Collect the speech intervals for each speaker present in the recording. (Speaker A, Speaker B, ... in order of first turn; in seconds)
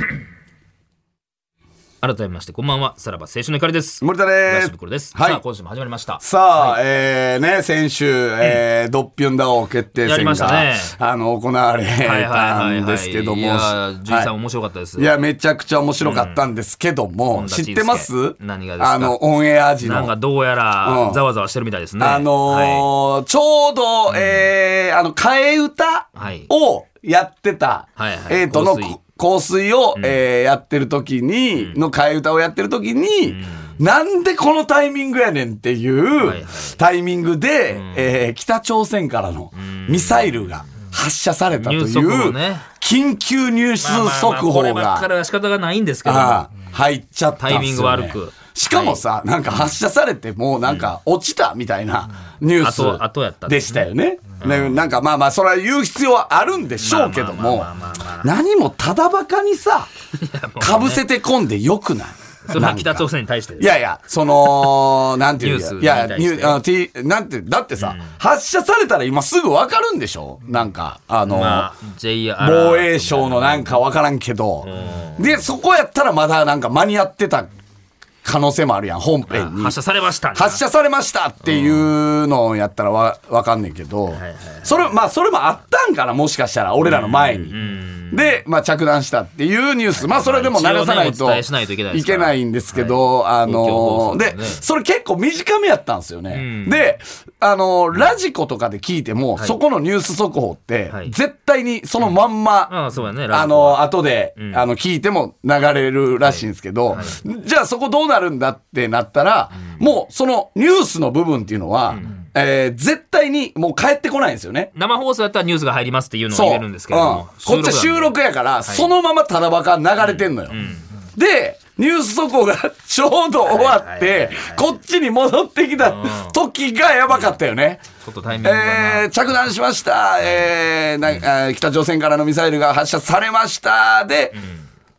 Speaker A: 2.0-6.8, 10.0-10.9, 12.0-15.1, 16.0-16.4, 17.3-19.2, 19.8-22.9, 24.1-24.5, 26.1-26.5, 28.0-29.0, 31.6-31.8, 33.2-33.8, 36.2-36.8, 37.7-38.1, 39.5-40.7, 41.5-42.7, 43.8-46.5, 47.4-49.8, 52.6-53.9, 54.4-54.8, 56.8-58.3, 60.1-61.0, 62.5-63.7, 64.4-66.6, 67.8-68.2, 71.2-73.8, 74.6-75.4, 79.3-80.6, 81.4-81.9, 84.1-84.9, 86.8-88.4, 89.9-94.6, 96.3-96.9, 100.9-101.1, 102.7-104.6, 106.2-107.2, 111.9-112.2, 114.7-118.9, 120.0-120.9, 123.5-124.6, 125.8-126.4, 128.0-129.1, 134.3-134.7
Speaker B: 4.0-5.4, 6.2-14.3, 14.9-20.1, 20.8-21.2, 22.0-45.1, 46.0-59.9, 60.6-71.7, 72.4-77.5, 78.2-79.8, 80.3-87.6, 88.1-102.7, 103.3-114.7, 116.3-127.8, 128.4-134.4